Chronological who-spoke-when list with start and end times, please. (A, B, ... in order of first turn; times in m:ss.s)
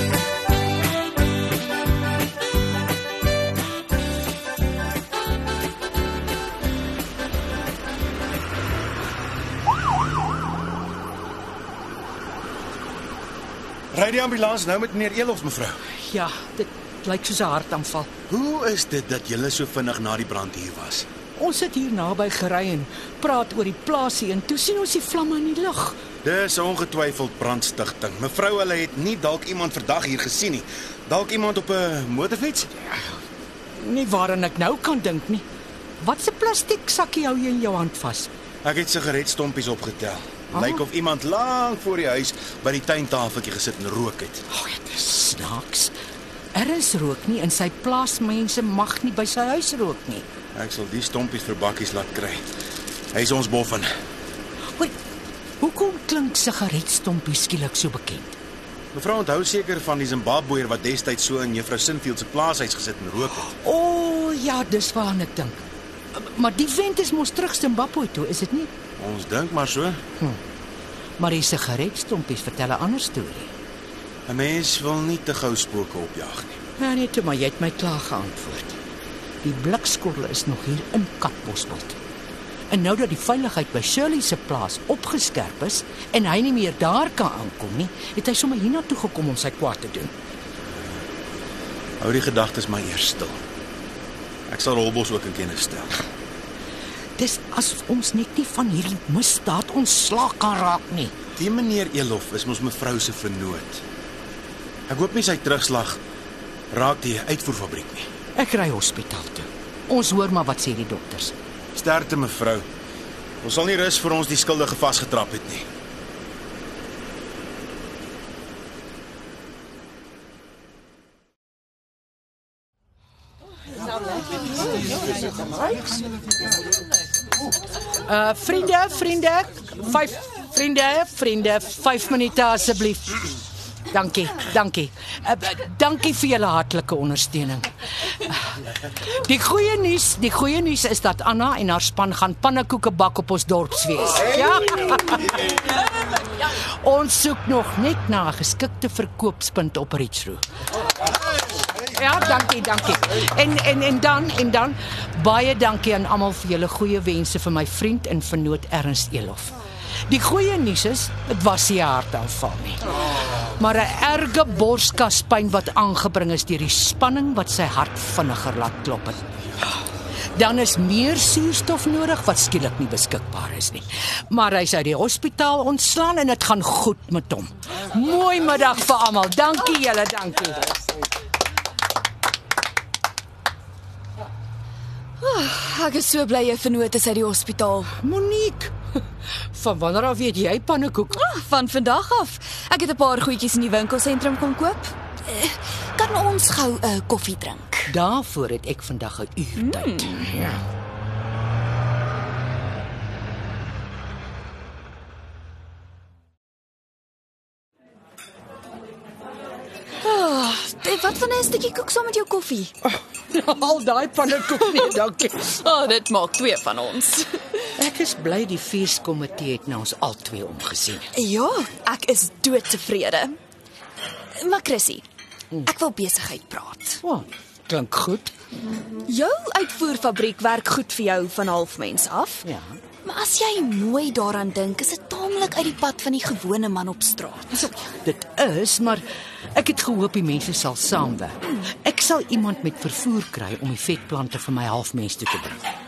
0:13.9-0:15.8 A
0:15.9-0:18.1 B
0:18.3-0:21.1 A
0:21.4-0:26.0 B
0:26.2-0:32.8 A
0:33.8-0:35.5 B
0:36.0-0:38.3 B
0:38.6-0:44.4 A
0:40.5-0:40.8 B
0:44.5-0:45.9 B
0:46.5-0:50.3 B
0:50.5-0:52.4 A
0:53.1-0:53.9 A
0:55.6-0:58.4 B
0:58.9-1:03.5 A
1:03.4-1:08.7 B
1:09.0-1:10.0 A
1:11.2-1:13.5 B
1:14.3-1:16.6 A
1:16.8-1:18.8 B
1:19.4-1:22.0 B
1:22.7-1:30.1 B
1:32.0-1:33.4 A
1:34.5-1:35.9 A
1:37.2-1:41.1 B
1:41.4-1:43.8 A
1:44.9-1:46.0 A
1:46.7-1:48.1 A
1:48.4-1:51.3 B
1:51.7-1:52.7 A
1:53.4-1:55.7 A
2:08.0-2:13.3 B
2:13.9-2:18.4 B
2:18.9-2:25.8 B
2:26.4-2:30.4 B
2:31.8-2:49.2 B
2:50.3-3:00.7 B
3:05.2-3:07.9 C
3:08.0-3:08.8 B
3:09.5-3:11.2 B
3:11.1-3:17.9 C
3:17.9-3:20.6 B
3:19.6-3:20.2 C
3:30.0-3:32.7 C
3:33.0-3:35.5 B
3:35.5-3:37.7 C
3:37.8-3:41.1 B
3:41.1-3:43.4 C
3:44.4-3:45.0 C
3:45.7-3:47.0 C
3:47.0-3:48.3 B
3:49.1-3:52.4 C
3:52.4-3:52.8 B
3:53.0-3:57.5 C
3:57.5-3:59.0 B
3:59.6-4:05.6 B